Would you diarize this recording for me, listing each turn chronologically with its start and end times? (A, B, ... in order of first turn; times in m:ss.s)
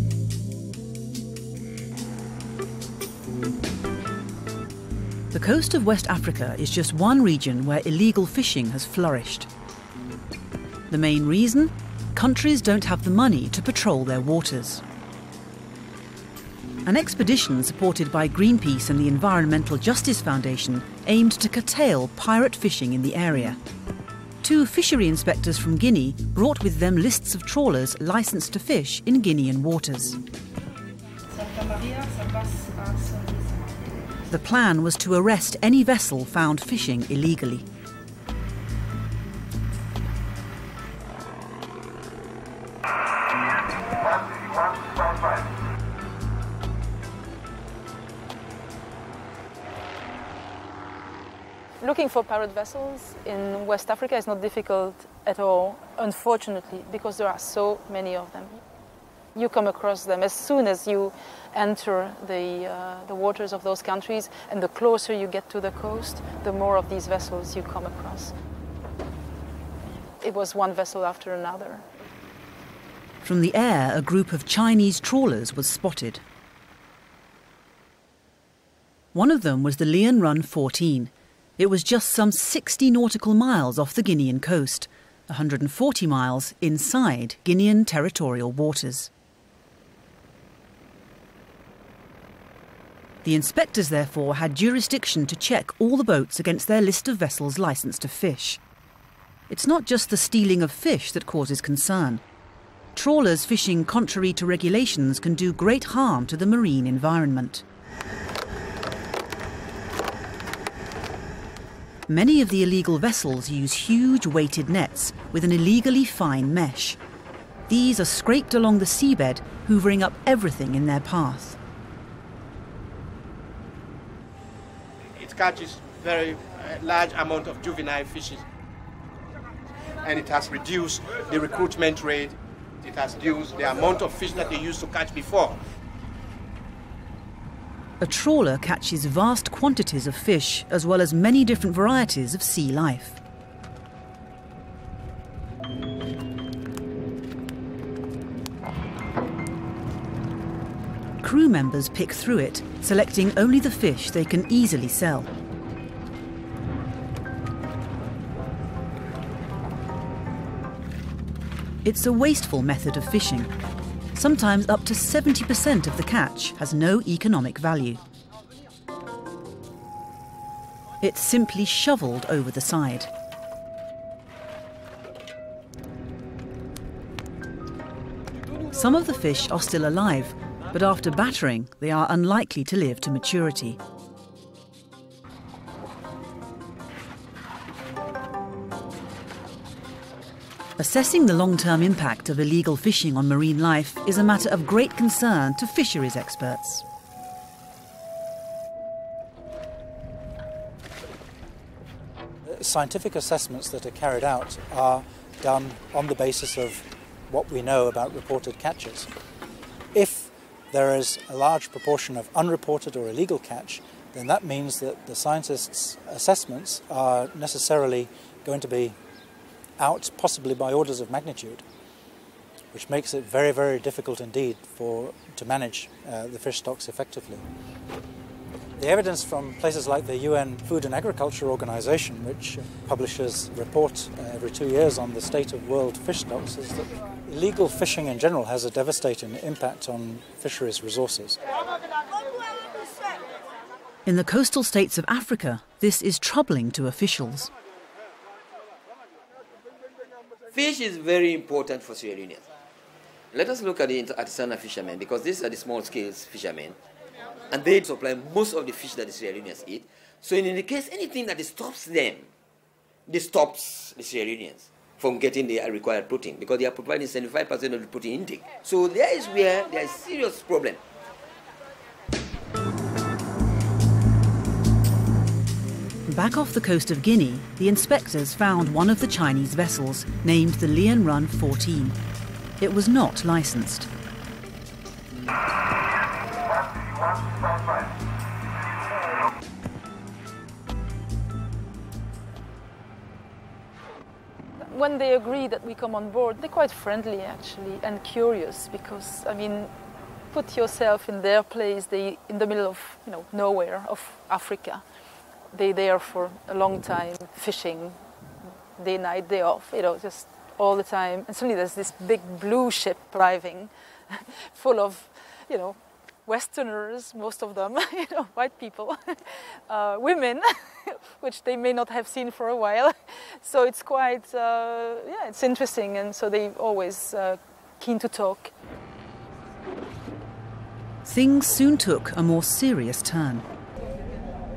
0:05.3-0:09.5 A
0:10.9-0:14.8 A
0:16.8-0:23.6 A
0:24.4-0:30.2 A
0:31.3-0:33.9 B
0:34.3-0:37.6 A
0:51.8-0:58.6 B
0:59.4-1:08.3 B
1:10.2-1:11.8 B
1:13.2-1:16.2 A
1:19.1-1:29.1 A
1:33.2-1:38.6 A
1:39.5-1:42.2 A
1:43.0-1:47.6 A
1:52.1-1:57.0 A
1:57.7-2:01.6 A
2:05.2-2:08.5 C
2:10.0-2:15.6 C
2:18.0-2:23.2 A
2:31.2-2:35.3 A
2:41.8-2:43.5 A
2:44.1-2:48.0 A
2:51.0-2:53.1 A
2:58.7-3:03.8 A
3:10.8-3:16.8 A
3:22.5-3:29.1 D
3:29.9-3:39.0 D
3:39.8-3:41.6 D
3:42.7-3:47.5 D
3:48.8-4:01.4 D
4:04.1-4:07.5 A
4:10.5-4:12.5 E
4:13.3-4:16.8 E
4:17.5-4:22.3 E
4:23.1-4:30.8 E
4:36.1-4:42.0 A
4:42.6-4:43.9 A
4:54.6-4:59.7 B
5:00.3-5:04.8 B
5:05.5-5:08.0 B
5:08.8-5:28.5 B
5:31.0-5:33.5 A